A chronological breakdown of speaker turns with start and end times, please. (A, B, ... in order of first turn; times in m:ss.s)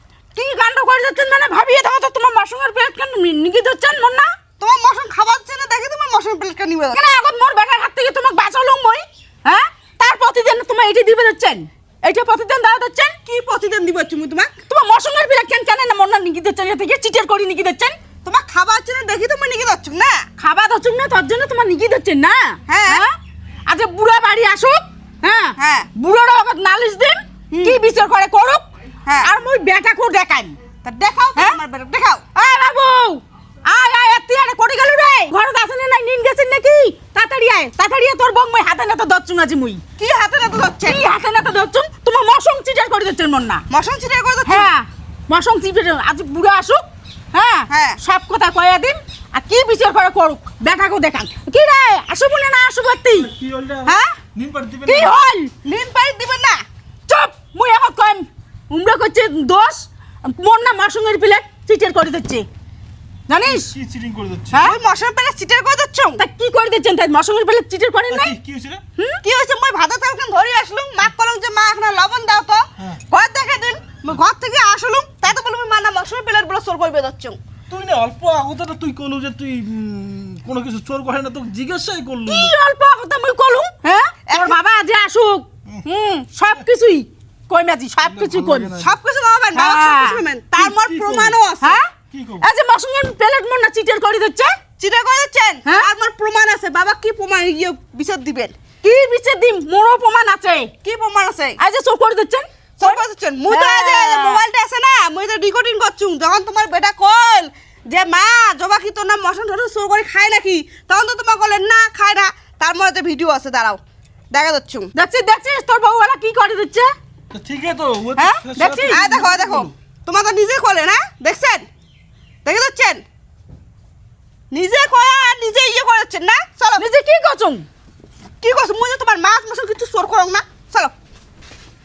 0:00.3-0:04.3 A
0:04.6-0:07.0 B
0:06.9-0:13.2 A
0:13.2-0:14.5 B
0:14.7-0:18.0 A
0:18.2-0:20.2 B
0:20.4-0:23.2 A
0:22.7-0:23.0 B
0:23.7-0:28.7 A
0:25.6-0:25.9 B
0:27.5-0:27.8 B
0:29.0-0:29.3 B
0:29.2-0:30.6 A
0:30.8-0:32.3 B
0:32.3-0:39.8 A
0:40.0-0:41.0 B
0:40.8-0:43.6 A
0:43.7-0:44.7 B
0:44.4-0:53.3 A
0:47.7-0:48.0 B
0:53.1-0:55.2 C
0:53.8-0:54.1 B
0:54.8-0:55.5 A
0:55.6-0:56.6 B
0:57.1-1:02.4 A
1:03.3-1:03.7 A
1:03.4-1:04.6 C
1:04.5-1:04.8 A
1:04.6-1:06.2 B
1:06.2-1:08.4 A
1:08.1-1:08.8 C
1:09.0-1:09.2 A
1:09.2-1:17.4 B
1:17.7-1:22.5 C
1:22.2-1:28.8 A
1:24.3-1:24.6 B
1:28.0-1:28.9 C
1:28.8-1:31.8 B
1:29.5-1:30.2 A
1:30.6-1:31.4 C
1:31.6-1:34.6 A
1:32.1-1:32.4 C
1:34.8-1:38.5 B
1:38.8-1:40.7 A
1:40.8-1:41.6 B
1:41.6-1:44.4 A
1:42.8-1:54.9 B
1:54.9-1:56.9 A
1:57.3-1:59.7 C
1:58.2-2:01.7 B
1:58.4-1:59.1 A
2:02.4-2:03.0 B
2:04.5-2:06.8 B
2:06.8-2:07.6 A
2:08.4-2:10.9 B